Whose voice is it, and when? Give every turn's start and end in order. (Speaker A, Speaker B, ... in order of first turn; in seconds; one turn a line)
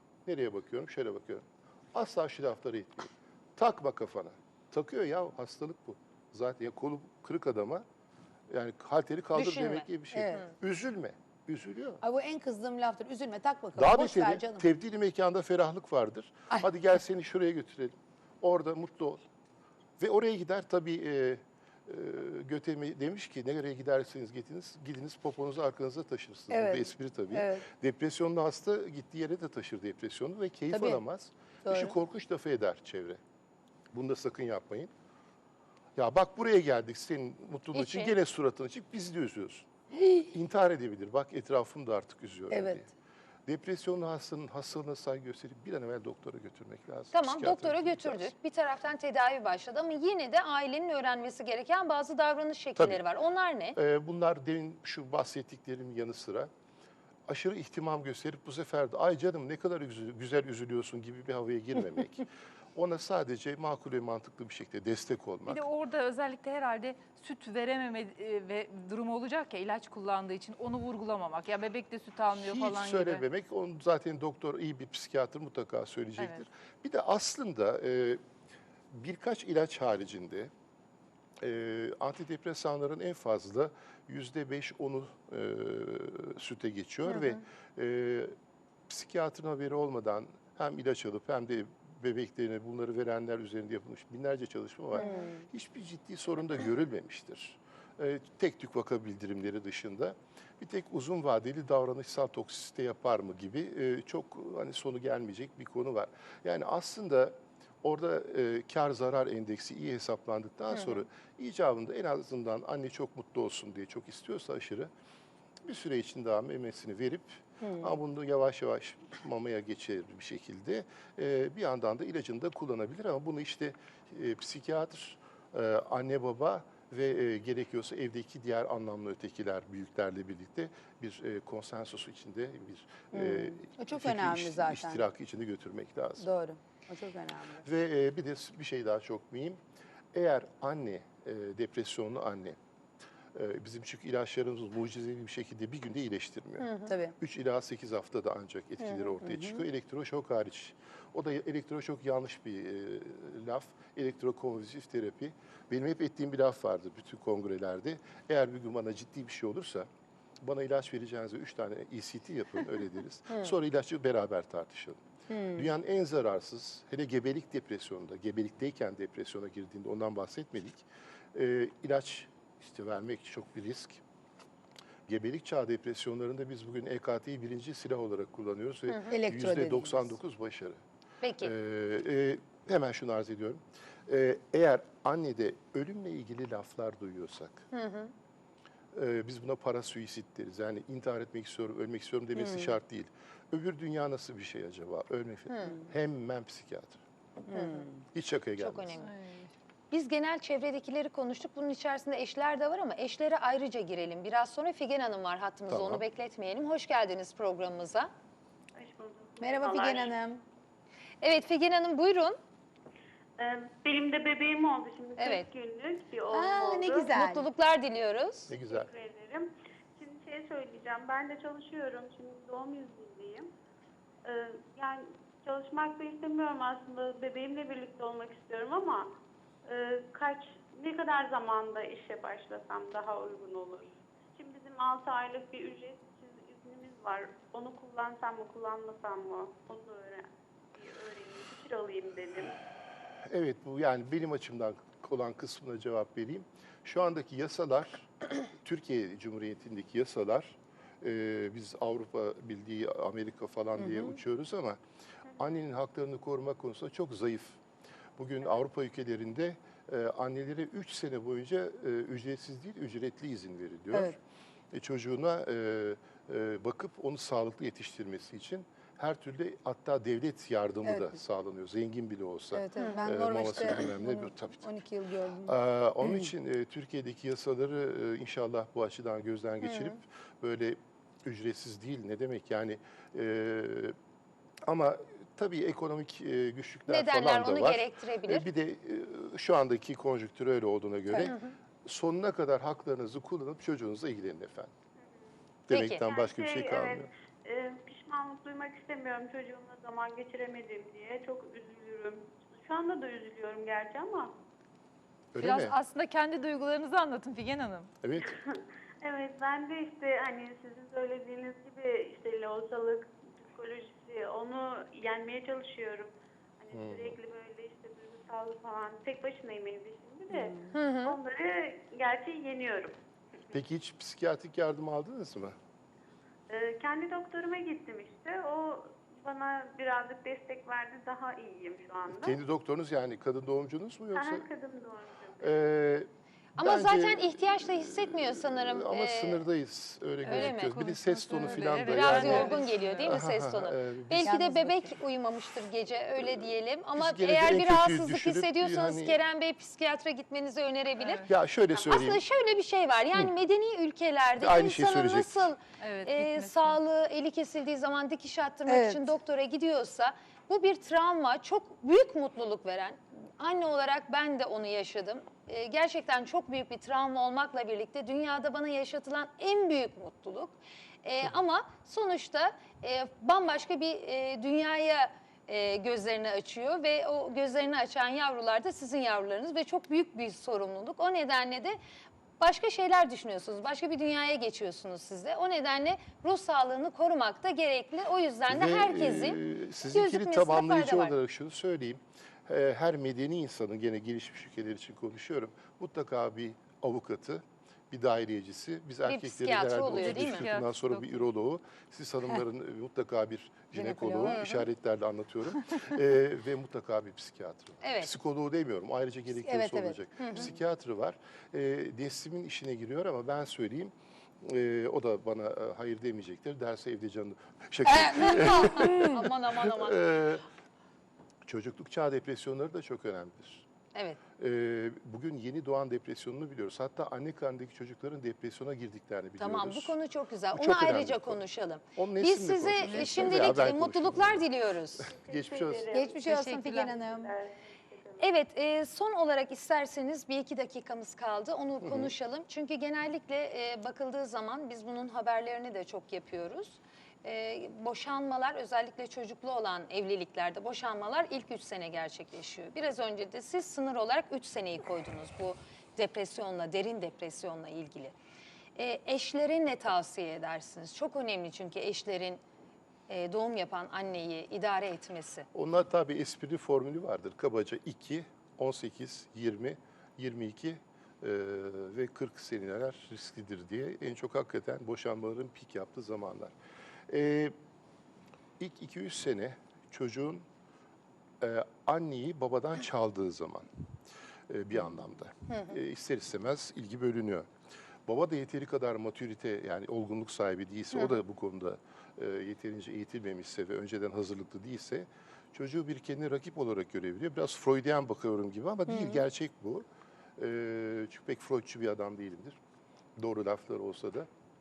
Speaker A: 0.3-7.8
Speaker A: 8.5-12.0
Speaker B: 9.3-10.5
Speaker C: 10.1-10.4
Speaker C: 12.0-14.7
Speaker A: 13.8-19.2
Speaker A: 20.0-33.2
Speaker C: 26.5-27.6
Speaker C: 30.7-31.0
Speaker C: 31.6-31.9
Speaker A: 33.9-34.9
Speaker A: 36.0-39.7
Speaker B: 37.7-38.1
Speaker A: 40.2-42.9
Speaker C: 42.5-42.8
Speaker A: 43.5-48.3
Speaker B: 47.1-53.8
Speaker A: 52.8-53.0
Speaker A: 53.8-56.5
Speaker A: 57.3-65.7
Speaker D: 65.5-73.3
Speaker A: 72.3-78.2
Speaker D: 76.2-76.5
Speaker A: 78.9-80.5
Speaker A: 81.4-88.3
Speaker B: 87.1-87.4
Speaker A: 88.9-114.9
Speaker C: 95.0-95.5
Speaker B: 110.7-111.0
Speaker A: 115.7-136.3
Speaker C: 117.6-117.9
Speaker C: 133.1-135.1
Speaker C: 136.2-137.6
Speaker A: 137.6-139.6
Speaker A: 140.1-142.6
Speaker A: 143.3-159.9
Speaker B: 146.6-147.0
Speaker C: 146.9-147.2
Speaker C: 149.2-149.6
Speaker A: 160.4-165.0
Speaker C: 165.3-165.7
Speaker A: 165.5-174.0
Speaker A: 175.1-180.8
Speaker B: 178.9-179.1
Speaker C: 179.1-180.1
Speaker B: 181.2-181.5
Speaker A: 181.4-187.7
Speaker B: 187.7-188.1
Speaker A: 188.9-197.0
Speaker C: 192.4-192.7
Speaker B: 195.5-195.8
Speaker C: 197.5-198.0
Speaker B: 197.5-197.8
Speaker A: 198.1-199.0
Speaker B: 198.6-199.1
Speaker D: 198.9-199.5
Speaker B: 199.9-208.1
Speaker A: 205.7-206.0
Speaker E: 208.8-210.2
Speaker C: 209.4-210.4
Speaker B: 211.2-212.4
Speaker E: 213.4-217.2
Speaker B: 215.2-215.5
Speaker C: 216.3-217.5
Speaker B: 217.1-218.6
Speaker A: 218.5-218.9
Speaker E: 218.7-223.5
Speaker E: 224.2-229.1
Speaker E: 229.7-242.6
Speaker A: 243.3-254.8
Speaker C: 253.8-254.2
Speaker A: 255.4-257.6
Speaker A: 258.2-264.2
Speaker A: 264.7-274.7
Speaker C: 270.8-271.2
Speaker C: 272.5-276.3
Speaker A: 275.4-284.0
Speaker B: 279.6-280.0
Speaker A: 284.6-294.7
Speaker B: 286.9-288.5
Speaker B: 291.2-291.6
Speaker A: 295.7-297.1
Speaker B: 295.7-296.1
Speaker E: 296.1-304.3
Speaker A: 305.3-305.8
Speaker D: 305.4-307.9
Speaker A: 308.0-308.4
Speaker E: 308.2-322.9
Speaker A: 316.7-317.2
Speaker C: 320.3-320.7
Speaker B: 320.7-321.2
Speaker A: 323.5-325.6
Speaker E: 326.5-332.4
Speaker A: 332.1-334.5
Speaker E: 334.1-335.5
Speaker A: 335.4-344.4
Speaker B: 336.6-339.5
Speaker D: 340.2-343.1
Speaker B: 340.3-340.8
Speaker B: 341.8-381.8
Speaker C: 344.2-345.0
Speaker A: 346.9-349.2
Speaker D: 351.0-351.3
Speaker A: 351.3-352.2
Speaker A: 354.4-355.5
Speaker D: 355.8-356.8
Speaker C: 358.7-359.0
Speaker B: 382.4-391.1
Speaker A: 388.5-420.4
Speaker B: 399.1-400.5
Speaker D: 399.9-401.3
Speaker C: 403.7-404.4
Speaker B: 404.2-404.7
Speaker B: 407.8-408.2
Speaker C: 409.4-410.5
Speaker B: 410.2-410.5
Speaker B: 417.9-420.0
Speaker A: 421.4-423.7
Speaker B: 423.9-424.2
Speaker A: 424.4-430.0
Speaker B: 429.4-435.1
Speaker A: 430.5-431.4
Speaker A: 431.9-434.5
Speaker D: 432.8-433.6
Speaker E: 435.1-436.3
Speaker A: 435.1-435.9
Speaker C: 435.9-437.3
Speaker D: 436.3-436.9
Speaker E: 436.9-438.3
Speaker B: 438.2-458.1
Speaker A: 441.8-442.1
Speaker B: 458.8-462.4
Speaker B: 463.1-465.5
Speaker A: 465.5-476.5
Speaker A: 477.1-477.6
Speaker A: 478.6-480.5
Speaker A: 481.4-483.7
Speaker A: 484.5-487.5
Speaker A: 488.1-499.9
Speaker A: 500.4-502.6
Speaker A: 503.2-504.3